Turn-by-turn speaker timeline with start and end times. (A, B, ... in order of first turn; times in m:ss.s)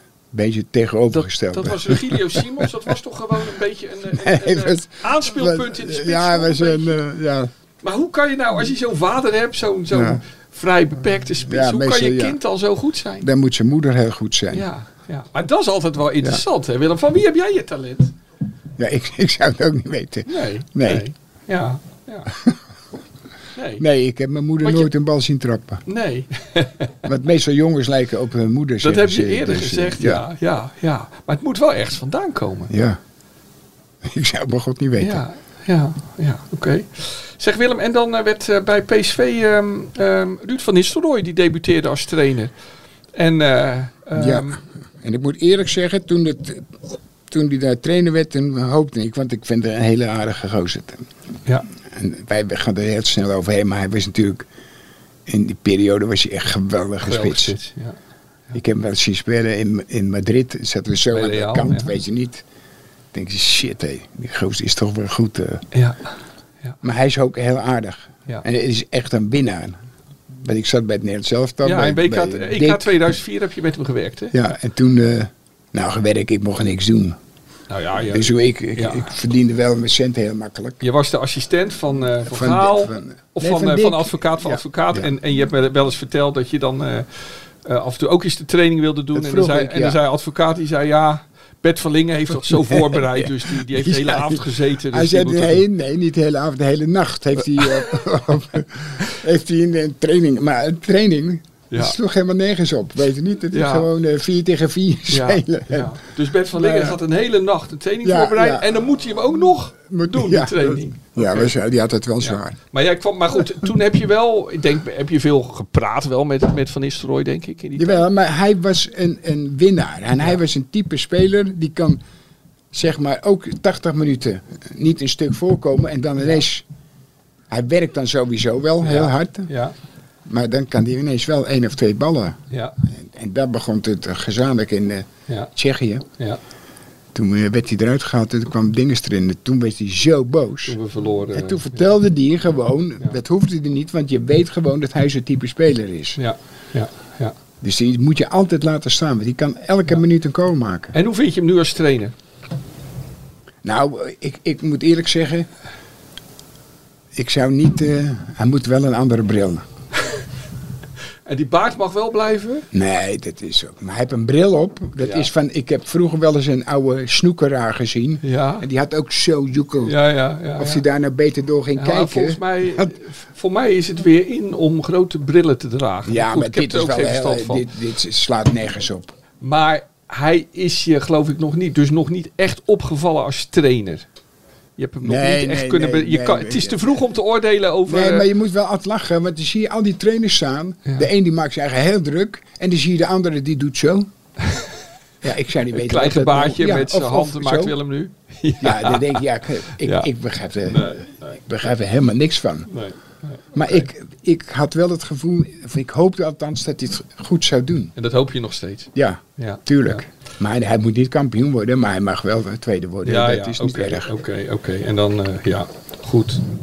0:00.3-0:02.7 A
0:01.1-0:07.0 B
0:04.1-0:07.5 A
0:07.8-0:13.3 B
0:09.9-0:10.2 A
0:11.4-0:12.4 A
0:13.2-0:14.7 A
0:14.5-0:18.1 B
0:18.8-0:21.1 A
0:20.3-0:22.3 B
0:22.3-0:22.6 A
0:23.6-0:23.8 B
0:23.8-0:25.8 A
0:24.6-0:24.9 B
0:25.9-0:26.9 B
0:27.0-0:30.2 A
0:28.8-0:32.7 B
0:32.7-0:33.0 A
0:34.0-0:35.2 A
0:35.0-0:42.5 B
0:43.2-0:44.6 B
0:44.2-0:46.7 A
0:47.3-0:51.1 A
0:51.8-0:54.5 A
0:55.3-0:57.6 A
0:57.0-0:58.0 B
0:58.5-1:02.4 A
1:01.1-1:02.0 B
1:03.1-1:05.6 A
1:05.7-1:06.1 B
1:06.8-1:09.8 A
1:10.3-1:12.9 A
1:11.6-1:14.4 B
1:14.3-1:17.2 A
1:17.7-1:19.1 B
1:18.1-1:20.8 A
1:20.8-1:27.1 B
1:22.2-1:25.1 A
1:27.6-1:35.6 B
1:29.1-1:30.0 A
1:32.4-1:46.0 A
1:37.6-1:37.9 B
1:41.7-1:42.0 B
1:43.5-1:43.9 B
1:45.1-1:51.5 B
1:46.5-1:47.0 A
1:48.0-1:48.7 A
1:49.9-1:52.6 A
1:52.2-1:58.0 B
1:57.8-2:02.0 A
2:02.7-2:06.6 A
2:07.5-2:09.5 A
2:08.8-2:09.8 B
2:10.3-2:16.0 A
2:12.5-2:12.8 B
2:17.1-2:20.8 A
2:20.6-2:21.8 B
2:21.3-2:26.2 A
2:26.2-2:27.4 B
2:27.6-2:30.9 A
2:30.9-2:32.1 B
2:33.6-2:35.5 A
2:37.2-2:39.6 A
2:41.3-2:42.7 B
2:42.7-2:50.0 A
2:45.0-2:45.3 B
2:48.2-2:48.6 B
2:49.8-2:50.8 B
2:50.6-2:52.9 A
2:51.8-2:57.7 B
2:56.1-2:59.2 A
2:59.4-3:04.1 B
3:04.8-3:08.3 B
3:05.0-3:07.0 A
3:07.9-3:14.1 A
3:15.2-3:17.8 A
3:15.7-3:19.2 B
3:18.6-3:22.7 A
3:19.8-3:20.1 B
3:20.7-3:21.4 B
3:22.7-3:23.9 B
3:23.5-3:27.9 A
3:28.0-3:30.0 B
3:29.0-3:34.2 A
3:33.0-3:36.4 B